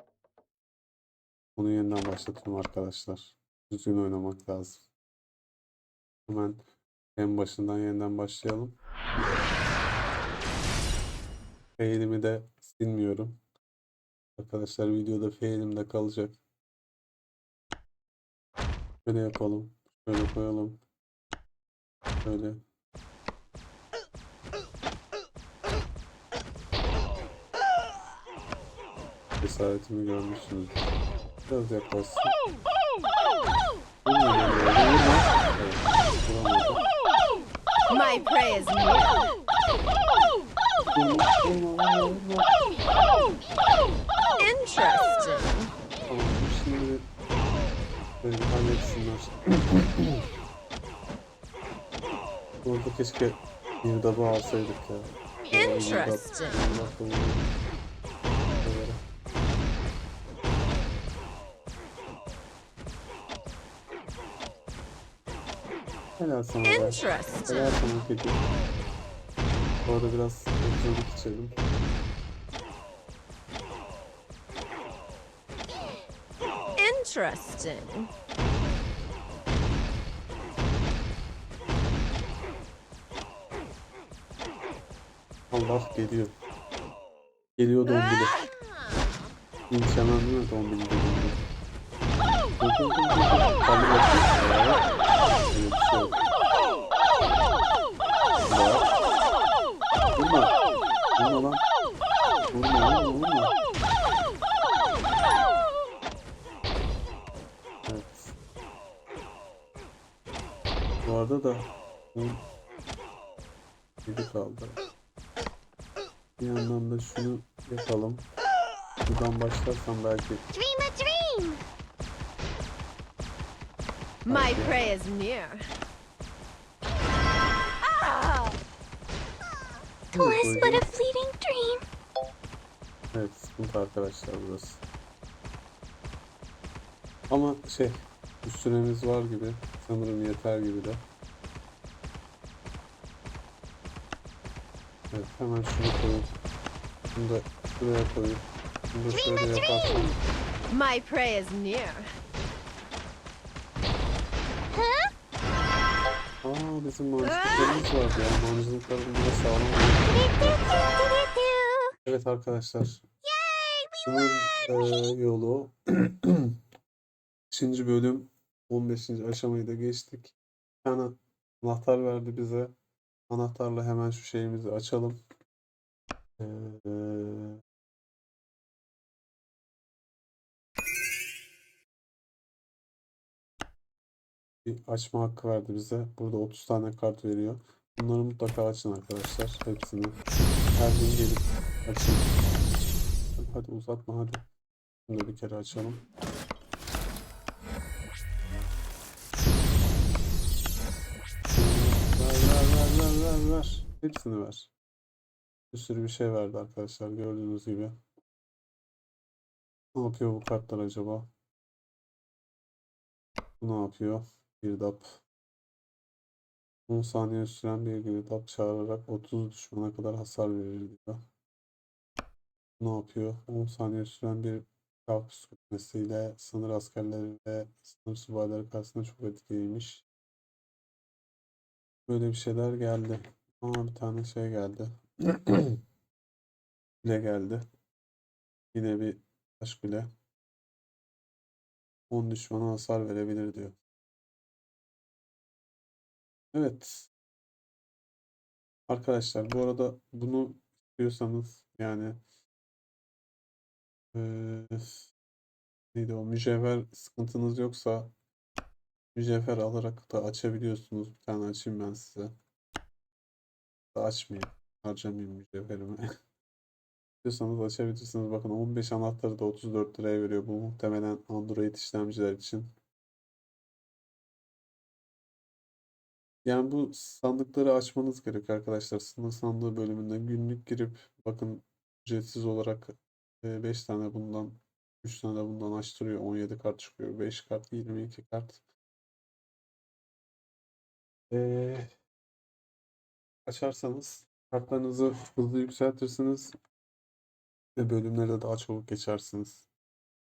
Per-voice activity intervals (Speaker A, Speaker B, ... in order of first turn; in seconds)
Speaker A: 1.6-4.8, 6.3-6.6, 7.2-8.8, 11.8-13.4, 14.4-16.4, 19.0-20.8, 22.2-22.6, 29.4-30.9, 31.5-32.3, 34.0-36.8, 40.9-42.7, 46.1-47.1, 48.2-50.2, 52.6-57.5, 58.6-59.0, 66.2-68.4, 69.8-71.5, 85.5-86.3, 87.6-88.4, 89.7-91.4, 92.6-94.8, 95.5-96.2, 98.4-98.9, 100.2-100.5, 101.2-101.6, 102.5-103.5, 107.9-108.3, 111.0-112.4, 114.0-114.8, 116.4-118.3, 119.0-120.4, 124.3-124.7, 130.1-130.9, 133.1-134.8, 137.3-141.0, 145.1-146.3, 147.1-150.2, 156.4-160.6, 162.0-163.0, 164.0-166.6, 167.5-172.7, 173.3-175.2, 176.4-177.6, 184.6-190.2, 190.8-192.3, 193.4-194.4, 195.1-196.0, 201.5-204.7, 205.7-208.0, 209.9-211.3, 213.6-215.2, 216.9-221.2, 222.8-230.0, 232.1-235.8, 237.0-237.6, 238.7-240.1, 242.1-243.8, 246.5-247.1, 248.9-252.2, 254.1-255.1, 255.9-258.1, 259.1-262.3, 263.9-266.0, 267.2-272.7, 276.4-288.6, 291.3-291.9, 293.4-296.5, 297.8-299.6
Speaker B: 37.9-39.3, 44.4-45.7, 55.5-56.5, 66.6-67.7, 76.8-78.1, 124.2-125.6, 150.7-151.9
Speaker C: 120.5-121.6, 130.1-131.8, 151.3-152.0, 161.1-161.9